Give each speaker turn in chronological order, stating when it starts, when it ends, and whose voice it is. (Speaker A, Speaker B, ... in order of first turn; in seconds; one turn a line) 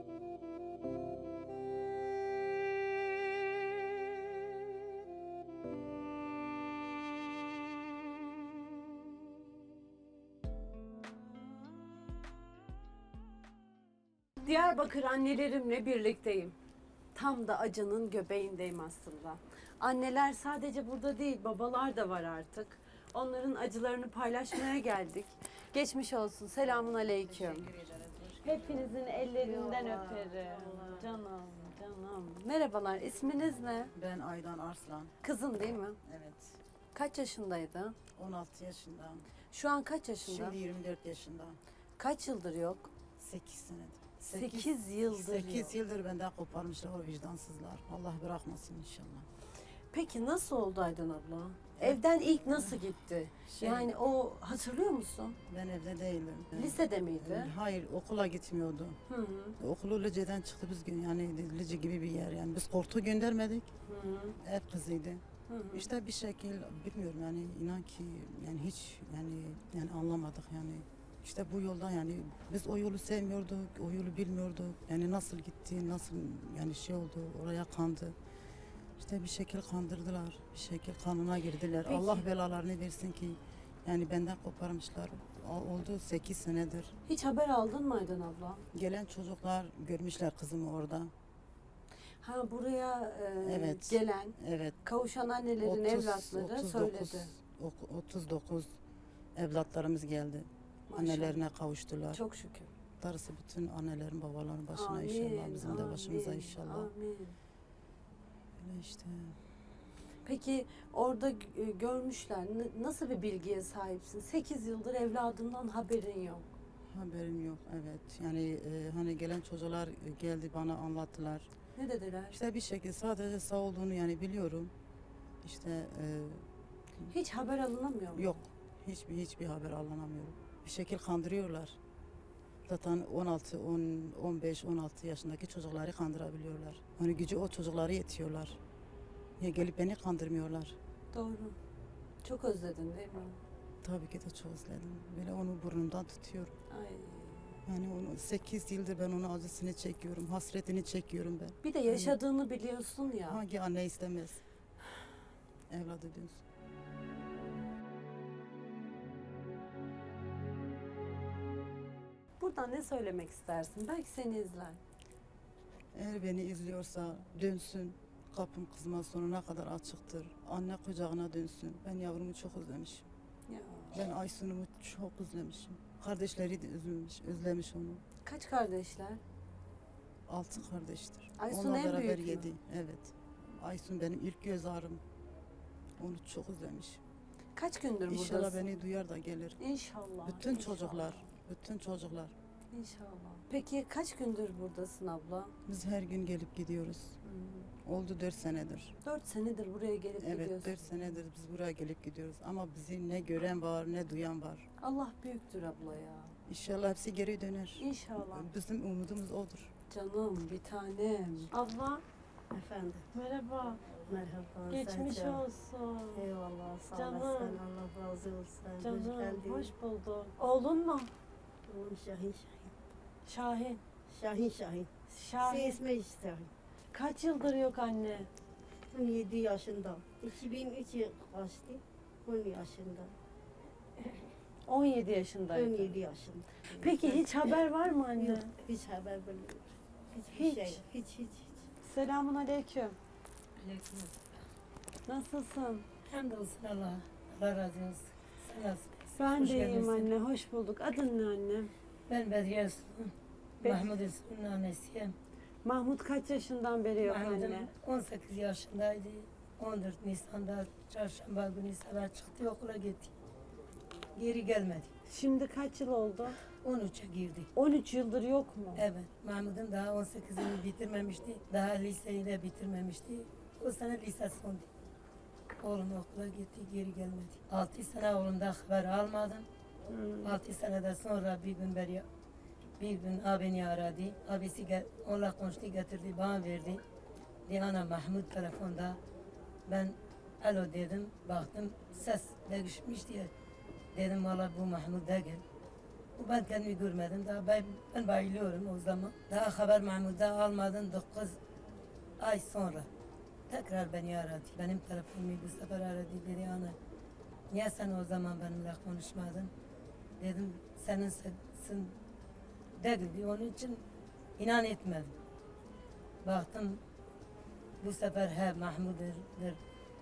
Speaker A: 14.4-16.5
Speaker A: 17.1-27.7
Speaker B: 26.8-29.1
Speaker A: 28.4-33.9
Speaker C: 29.5-30.5
Speaker B: 33.9-35.1
Speaker A: 35.2-36.0
Speaker B: 36.0-36.6
Speaker A: 36.9-38.0
Speaker B: 38.1-39.3
Speaker A: 39.5-40.6
Speaker B: 40.2-41.6
Speaker A: 42.0-42.9
Speaker B: 43.2-49.3
Speaker A: 44.2-45.7
Speaker A: 49.9-55.4
Speaker B: 51.8-52.8
Speaker B: 53.5-53.9
Speaker B: 55.5-59.0
Speaker A: 56.5-57.5
Speaker A: 59.1-59.6
Speaker B: 59.6-63.7
Speaker A: 63.9-64.4
Speaker B: 64.4-78.1
Speaker A: 65.5-65.9
Speaker B: 79.0-87.0
Speaker A: 81.8-82.3
Speaker A: 87.0-88.6
Speaker B: 88.7-91.1
Speaker A: 92.2-97.3
Speaker B: 93.4-94.8
Speaker B: 95.6-98.7
Speaker B: 99.3-102.2
Speaker A: 100.9-101.4
Speaker A: 102.1-102.7
Speaker B: 103.0-106.9
Speaker A: 104.7-107.3
Speaker B: 108.6-109.4
Speaker A: 110.2-116.5
Speaker B: 116.9-121.5
Speaker A: 121.8-122.4
Speaker B: 122.3-124.7
Speaker B: 125.4-126.4
Speaker A: 127.1-128.4
Speaker B: 128.1-131.8
Speaker B: 132.7-138.6
Speaker B: 139.4-140.8
Speaker A: 141.1-141.6
Speaker A: 142.2-143.4
Speaker B: 143.8-146.5
Speaker A: 146.7-147.6
Speaker B: 147.7-152.2
Speaker A: 151.6-153.4
Speaker B: 153.3-154.4
Speaker B: 155.7-156.4
Speaker A: 162.4-164.8
Speaker B: 165.9-173.1
Speaker A: 173.5-174.0
Speaker B: 173.9-178.0
Speaker A: 178.2-179.2
Speaker B: 180.3-185.0
Speaker A: 181.4-182.5
Speaker B: 186.0-187.0
Speaker A: 187.5-188.7
Speaker B: 188.1-189.6
Speaker A: 189.6-191.2
Speaker B: 190.2-192.3
Speaker A: 192.7-195.5
Speaker B: 195.7-197.2
Speaker A: 197.2-197.7
Speaker B: 197.8-198.9
Speaker A: 199.0-201.0
Speaker B: 200.2-204.7
Speaker A: 204.8-206.3
Speaker B: 206.4-209.7
Speaker A: 207.8-208.5
Speaker A: 209.9-212.0
Speaker C: 212.5-213.1
Speaker A: 213.1-213.8
Speaker C: 213.9-215.4
Speaker A: 214.7-216.2
Speaker C: 216.1-219.7
Speaker A: 216.9-217.6
Speaker A: 218.8-221.1
Speaker C: 221.7-222.7
Speaker A: 223.2-223.8
Speaker C: 224.1-226.5
Speaker A: 225.1-225.8
Speaker A: 226.9-228.3
Speaker C: 228.9-233.1
Speaker A: 234.7-236.0
Speaker C: 235.5-237.6
Speaker A: 236.7-238.5
Speaker C: 238.2-241.7
Speaker A: 240.3-240.8
Speaker A: 241.8-243.0
Speaker D: 243.6-244.3
Speaker A: 245.1-245.8
Speaker D: 246.0-250.1
Speaker A: 249.1-251.7
Speaker D: 252.1-255.1
Speaker A: 253.6-253.9
Speaker A: 255.6-257.7
Speaker D: 257.0-263.1
Speaker D: 264.1-264.9
Speaker A: 265.1-266.4
Speaker D: 266.6-267.5
Speaker A: 267.5-268.8
Speaker D: 268.7-274.7
Speaker D: 275.6-279.4
Speaker A: 279.9-280.4
Speaker D: 280.2-282.0
Speaker D: 282.8-286.8
Speaker D: 287.4-289.0
Speaker D: 289.7-293.3
Speaker D: 293.9-295.4
Speaker D: 296.1-301.4
Speaker D: 302.2-302.9
Speaker D: 303.5-306.8
Speaker D: 307.5-309.5
Speaker D: 310.2-312.0
Speaker D: 312.8-313.8
Speaker D: 314.4-315.1
Speaker D: 316.2-316.8
Speaker D: 317.8-319.6